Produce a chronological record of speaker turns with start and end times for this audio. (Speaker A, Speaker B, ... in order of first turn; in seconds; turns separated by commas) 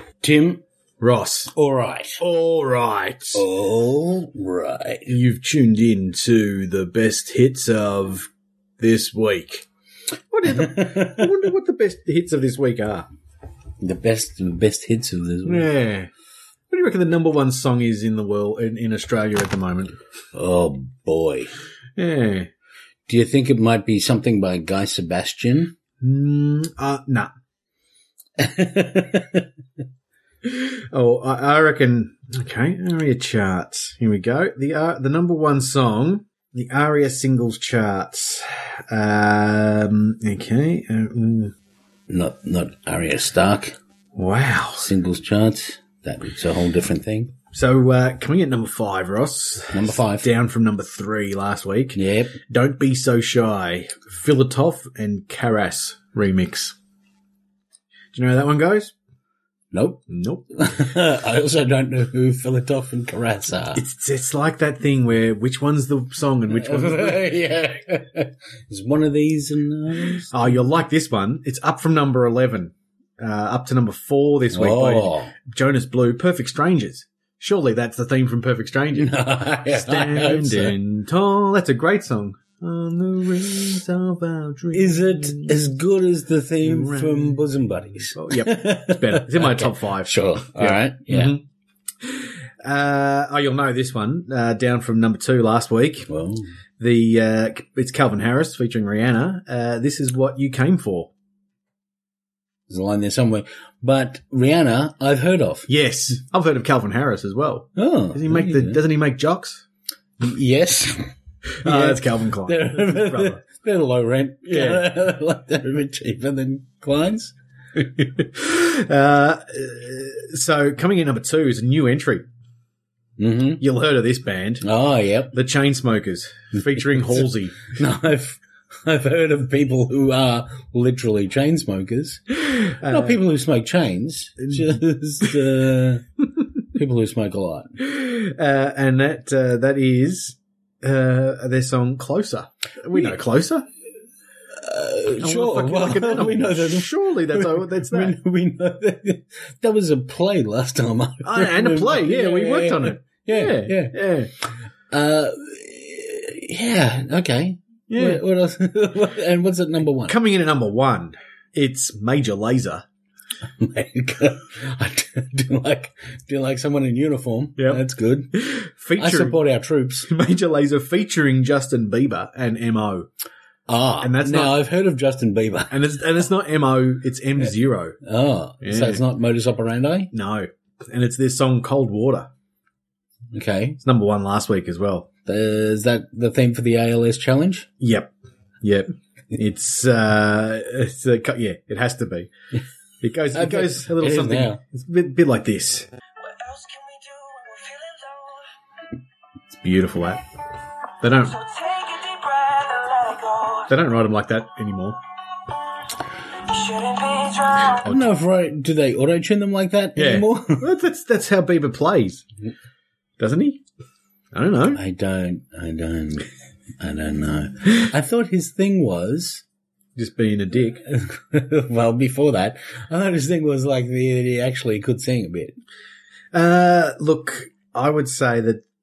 Speaker A: 0.2-0.6, Speaker B: 1.0-1.5, Speaker A: 1.5-2.2, Speaker B: 2.2-3.4, Speaker A: 3.3-5.1, Speaker B: 5.1-8.3, Speaker B: 8.8-9.7, Speaker B: 10.3-13.1, Speaker A: 10.5-11.3, Speaker A: 13.8-15.7, Speaker B: 15.4-16.1, Speaker B: 16.7-19.9, Speaker A: 20.3-21.5, Speaker B: 22.0-22.5, Speaker A: 23.1-25.7, Speaker B: 26.0-27.3, Speaker A: 28.4-29.5, Speaker B: 30.4-41.5, Speaker A: 42.1-43.8, Speaker B: 44.1-44.9, Speaker A: 44.8-47.3, Speaker B: 47.5-56.8, Speaker A: 49.7-50.3, Speaker A: 51.9-52.4, Speaker B: 58.1-58.9, Speaker A: 59.7-60.0, Speaker B: 60.1-60.5, Speaker A: 60.5-63.8, Speaker B: 63.7-67.3, Speaker A: 66.5-70.6, Speaker B: 70.3-85.6, Speaker A: 74.5-75.3, Speaker A: 78.9-80.7, Speaker A: 84.7-91.3, Speaker B: 86.6-87.4, Speaker B: 88.1-91.4, Speaker B: 92.0-96.1, Speaker A: 96.1-96.5, Speaker B: 96.8-101.1, Speaker A: 102.7-105.7, Speaker B: 105.7-109.6, Speaker A: 107.8-108.8, Speaker A: 110.2-111.1, Speaker B: 111.6-113.4, Speaker A: 111.6-117.3, Speaker B: 114.4-114.9, Speaker B: 118.0-122.2, Speaker A: 123.2-123.6, Speaker B: 123.6-124.7, Speaker A: 124.6-125.3, Speaker B: 125.3-127.7, Speaker A: 127.1-136.1, Speaker B: 132.4-133.2, Speaker A: 136.7-137.8, Speaker B: 137.8-143.7, Speaker A: 144.6-153.9, Speaker B: 145.2-148.2, Speaker B: 151.2-154.3, Speaker A: 154.9-160.1, Speaker B: 157.9-158.2, Speaker B: 160.1-162.8, Speaker A: 163.6-168.3, Speaker B: 167.6-169.4, Speaker A: 169.0-170.1, Speaker B: 170.1-173.1, Speaker A: 173.7-175.8, Speaker B: 174.0-174.6, Speaker B: 175.7-178.0, Speaker A: 178.0-180.1, Speaker B: 178.6-179.0, Speaker B: 180.1-182.3, Speaker A: 183.3-183.8, Speaker B: 183.8-185.1, Speaker A: 185.2-187.7, Speaker B: 187.8-188.1, Speaker B: 188.6-192.3, Speaker B: 193.0-195.9, Speaker A: 193.3-194.6, Speaker C: 196.3-198.3, Speaker B: 199.5-200.2, Speaker B: 201.0-201.5, Speaker C: 201.4-203.6, Speaker B: 203.7-205.0, Speaker C: 206.6-207.7, Speaker A: 207.7-210.7, Speaker B: 207.8-208.1, Speaker B: 209.9-212.2, Speaker B: 213.2-213.6, Speaker B: 214.3-214.8, Speaker A: 214.7-216.3, Speaker A: 216.8-219.4, Speaker B: 219.9-220.8, Speaker A: 220.9-225.5, Speaker B: 226.3-228.6